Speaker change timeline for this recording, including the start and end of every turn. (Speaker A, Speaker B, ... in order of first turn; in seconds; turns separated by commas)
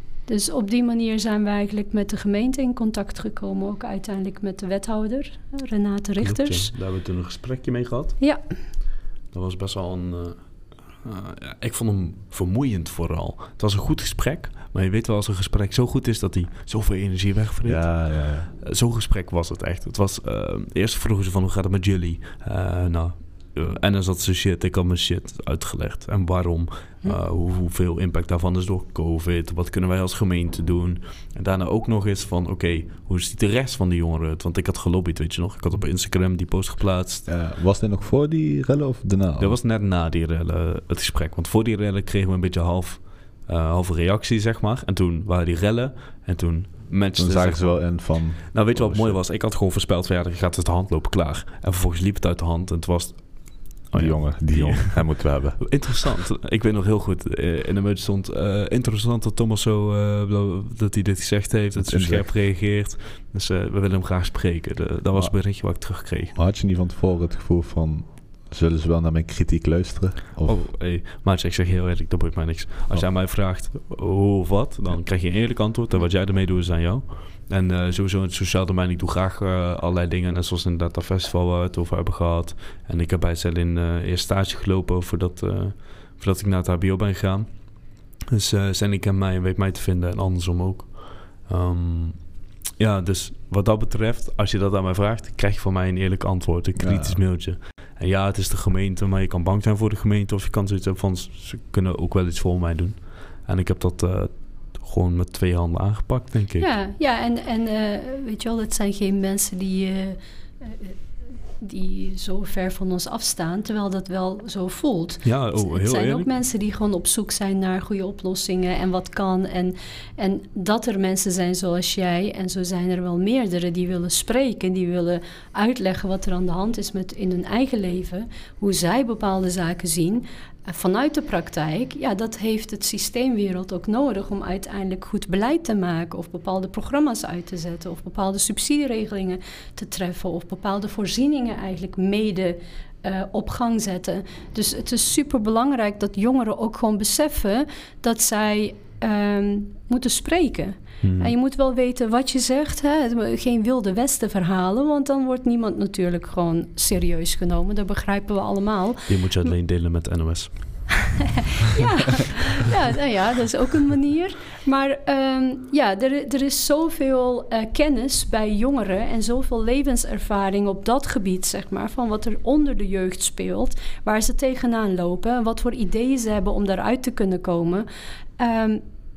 Speaker A: 0.2-6.7, Speaker B: 6.2-8.2, Speaker B: 9.3-37.3, Speaker C: 17.6-18.5, Speaker C: 37.3-39.6, Speaker B: 39.4-66.3, Speaker C: 47.2-49.2, Speaker C: 53.9-56.1, Speaker C: 61.8-62.3, Speaker C: 65.1-70.7, Speaker B: 70.4-106.7, Speaker C: 96.8-97.2, Speaker A: 106.6-111.0, Speaker A: 111.6-159.5, Speaker B: 115.2-116.3, Speaker B: 151.0-151.3, Speaker B: 159.1-161.1, Speaker A: 161.6-177.9, Speaker A: 178.4-178.8